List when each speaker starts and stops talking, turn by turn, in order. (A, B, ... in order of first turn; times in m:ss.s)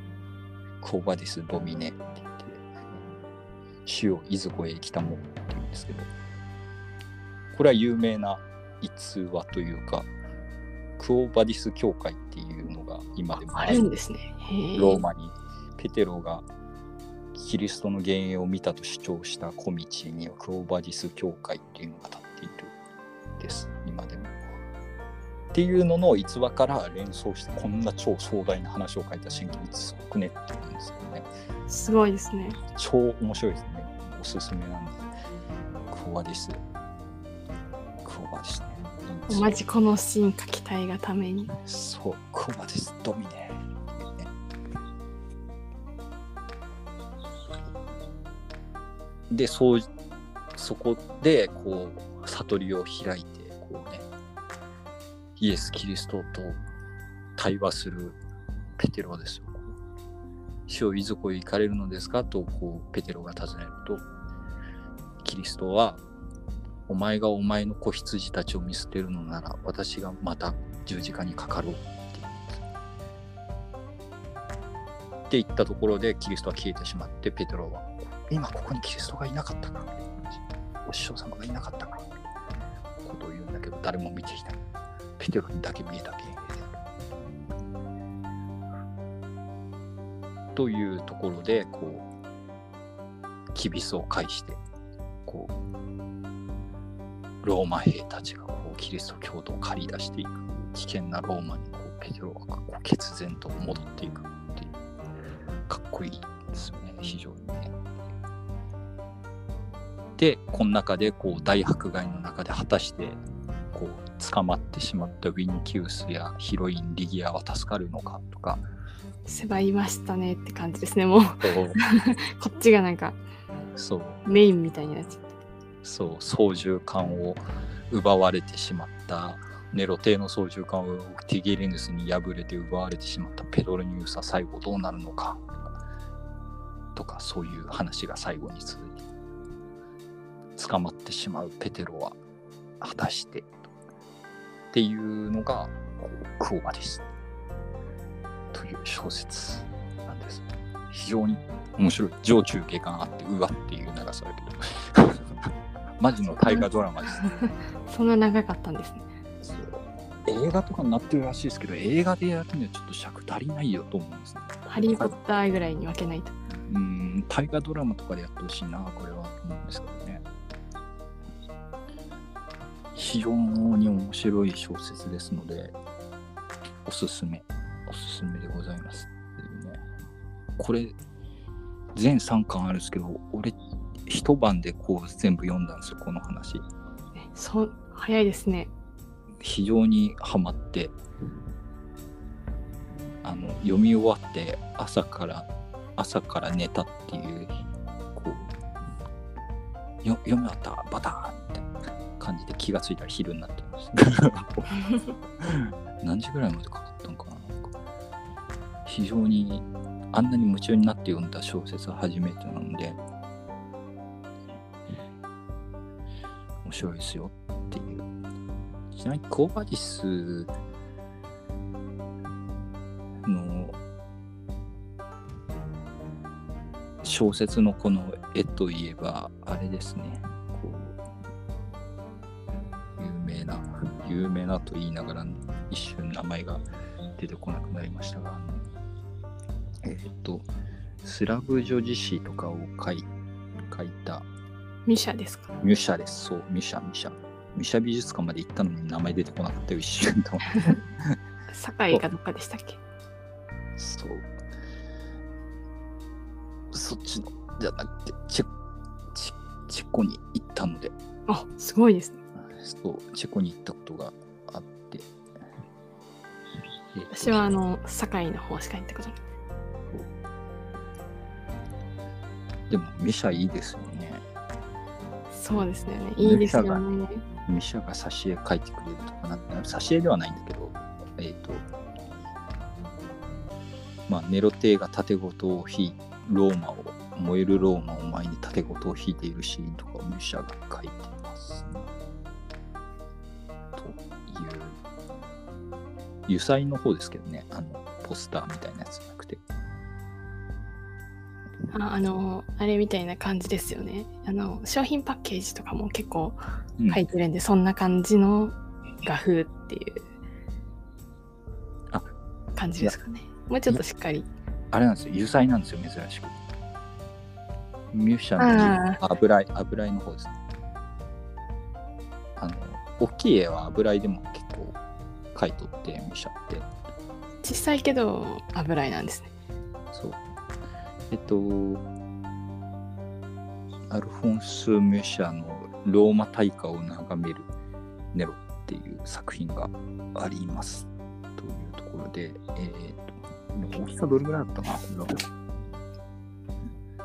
0:00.8-0:03.0 A
0:03.8-0:06.1 A
0:07.5-0:10.1 A
0:11.0-0:13.9 A
0:13.5-0:15.0 B
0:14.8-0:16.5 A
0:17.3-0:22.7 A
0:23.4-0:24.3 A
0:25.5-0:31.3 A
0:31.7-0:32.6 B
0:32.7-0:35.1 A
0:35.9-0:36.6 A
0:38.0-0:39.5 A
0:39.3-0:41.5 B
0:41.6-0:44.3 A
0:49.3-0:49.9 A
0:50.5-0:54.1 A
0:55.4-0:56.6 A
0:57.4-0:58.2 A
0:58.8-0:59.8 A
1:00.7-1:04.0 A
1:05.2-1:06.0 A
1:06.9-1:12.6 A
1:15.3-1:22.1 A
1:23.0-1:24.6 A
1:25.2-1:26.8 A
1:30.5-1:32.1 A
1:33.5-1:34.6 A
1:35.3-1:35.6 A
1:37.4-1:44.8 A
1:45.7-1:47.8 A
1:50.2-1:58.6 A
1:59.2-2:03.2 B
2:01.4-2:01.8 A
2:03.7-2:04.2 A
2:04.2-2:05.2 B
2:05.8-2:15.6 A
2:16.9-2:19.0 A
2:20.6-2:22.2 A
2:22.8-2:23.7 A
2:24.7-2:27.1 A
2:28.5-2:37.2 A
2:36.2-2:36.6 B
2:37.2-2:39.1 B
2:39.4-2:45.1 A
2:44.7-2:46.3 B
2:46.7-2:50.2 A
2:52.9-2:55.8 A
2:56.8-2:59.8 A
3:00.6-3:01.0 A
3:01.9-3:03.6 A
3:04.1-3:06.7 A
3:07.2-3:08.7 B
3:09.4-3:11.0 A
3:13.2-3:17.5 A
3:18.1-3:18.5 A
3:20.0-3:24.8 A
3:25.4-3:27.7 A
3:28.8-3:33.0 A
3:36.6-3:38.1 A
3:38.9-3:40.5 A
3:43.2-3:43.8 A
3:47.0-3:51.0 A
3:53.0-3:56.6 A
3:57.2-3:58.6 A
3:59.8-4:00.5 A
4:01.0-4:03.1 A
4:03.7-4:04.3 A
4:04.8-4:05.5 B
4:05.6-4:11.2 A
4:11.5-4:12.8 B
4:13.8-4:14.3 A
4:16.7-4:18.5 A
4:19.1-4:20.9 A
4:21.3-4:22.2 B
4:22.3-4:25.1 A
4:26.9-4:27.5 A
4:27.1-4:29.2 B
4:32.7-4:34.2 A
4:35.3-4:37.2 B
4:36.2-4:36.8 A
4:37.4-4:41.7 A
4:44.1-4:51.9 A
4:53.8-4:54.8 A
4:56.3-4:59.4 A
5:01.7-5:06.4 B
5:06.9-5:10.0 B
5:12.6-5:14.3 B
5:14.7-5:16.4 A
5:17.9-5:20.4 A
5:18.4-5:19.0 B
5:22.4-5:24.8 A
5:25.3-5:26.7 A
5:27.4-5:29.3 B
5:29.9-5:30.2 A
5:31.1-5:31.9 A
5:33.9-5:37.5 A
5:38.1-5:45.2 A